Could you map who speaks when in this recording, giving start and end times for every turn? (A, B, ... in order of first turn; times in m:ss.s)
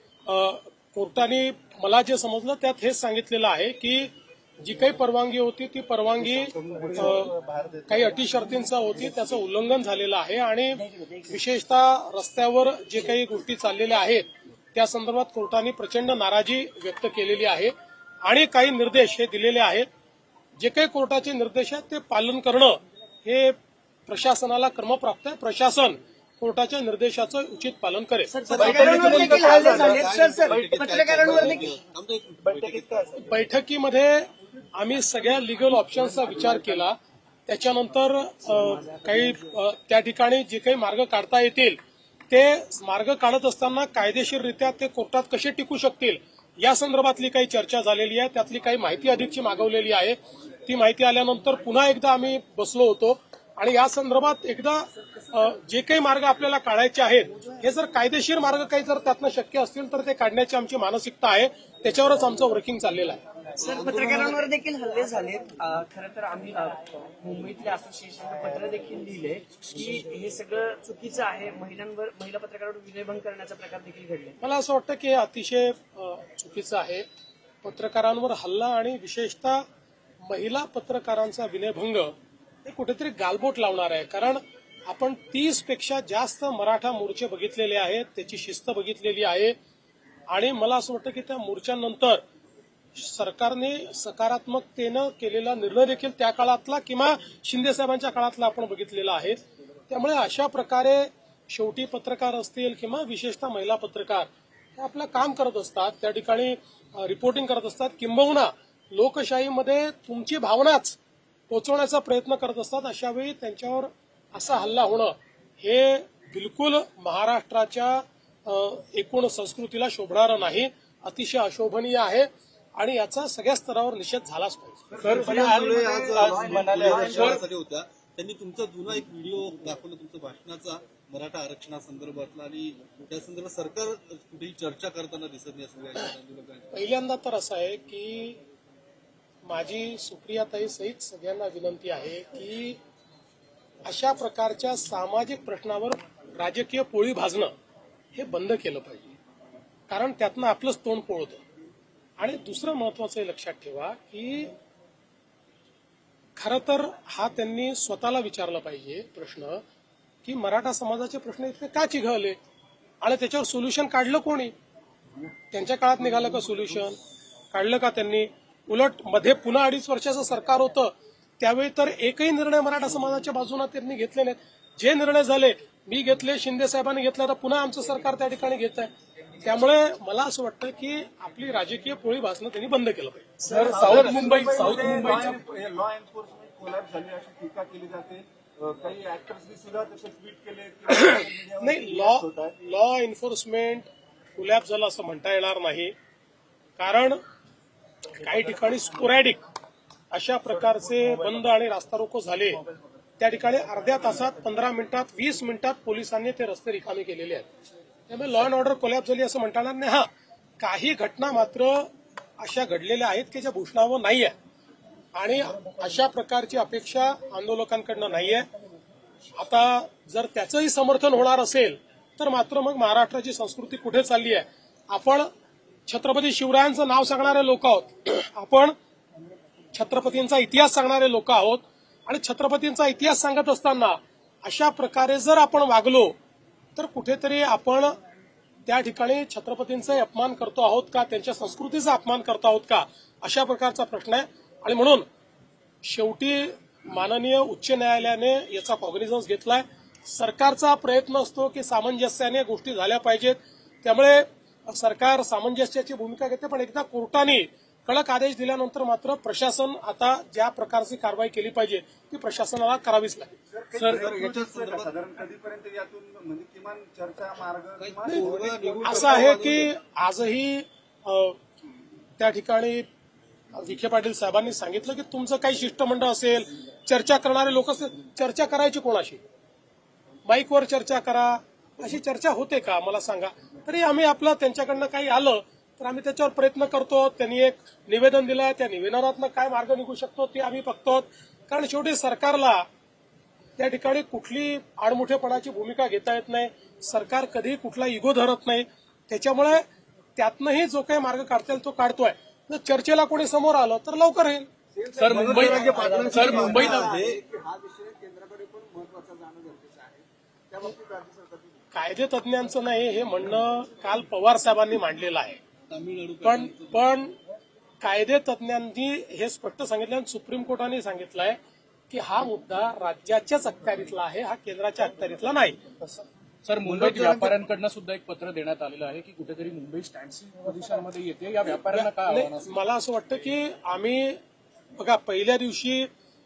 0:00.3-0:07.3 A
0:06.2-0:09.2 B
0:07.9-0:17.7 A
0:18.2-0:19.9 A
0:20.6-0:23.5 A
0:24.1-0:29.0 A
0:28.3-0:31.7 C
0:28.4-0:33.1 D
0:28.5-0:31.6 B
0:32.4-0:33.1 B
0:33.1-0:37.0 A
0:37.5-0:41.8 A
0:38.6-0:39.4 C
0:42.3-1:03.2 A
1:03.5-1:14.4 C
1:03.6-1:04.5 D
1:14.4-1:17.0 A
1:17.6-1:19.6 A
1:20.2-1:22.1 A
1:22.6-1:29.5 A
1:30.3-1:32.2 A
1:32.9-1:51.0 A
1:51.5-2:04.8 A
2:04.9-2:07.4 B
2:05.0-2:07.4 E
2:05.0-2:16.7 D
2:16.7-2:18.4 A
2:19.4-2:22.8 A
2:23.8-2:27.5 A
2:28.1-2:29.1 A
2:29.9-2:31.4 A
2:32.2-2:34.5 A
2:36.4-2:39.6 A
2:40.2-2:42.4 A
2:43.0-2:44.5 A
2:45.5-2:47.0 A
2:47.5-3:04.0 A
3:03.4-3:05.4 E
3:03.5-3:12.6 B
3:10.9-3:15.9 A
3:16.8-3:17.2 A
3:18.1-3:19.4 A
3:20.1-3:22.6 A
3:23.2-3:27.5 A
3:28.1-3:30.1 A
3:30.6-3:34.3 A
3:35.1-3:38.5 A
3:39.4-3:45.3 A
3:45.9-3:48.7 A
3:49.7-3:56.1 A
3:56.7-3:58.0 A
3:58.6-4:05.0 A
4:05.8-4:23.3 A
4:23.5-4:29.4 B
4:23.8-4:24.0 E
4:23.9-4:24.9 D
4:27.8-4:29.7 D
4:28.8-4:31.4 A
4:32.2-4:32.8 A
4:33.5-4:39.2 A
4:40.2-4:52.6 A
4:53.6-5:04.5 A
5:04.7-5:11.6 B
5:05.0-5:07.0 E
5:05.2-5:07.2 D
5:05.7-5:06.8 C
5:11.7-5:15.4 A
5:15.7-5:16.9 D
5:16.2-5:17.1 A
5:17.8-5:21.4 A
5:21.9-5:25.6 A
5:25.8-5:32.5 E
5:26.6-5:27.4 D
5:31.6-5:34.2 A
5:34.8-5:35.9 A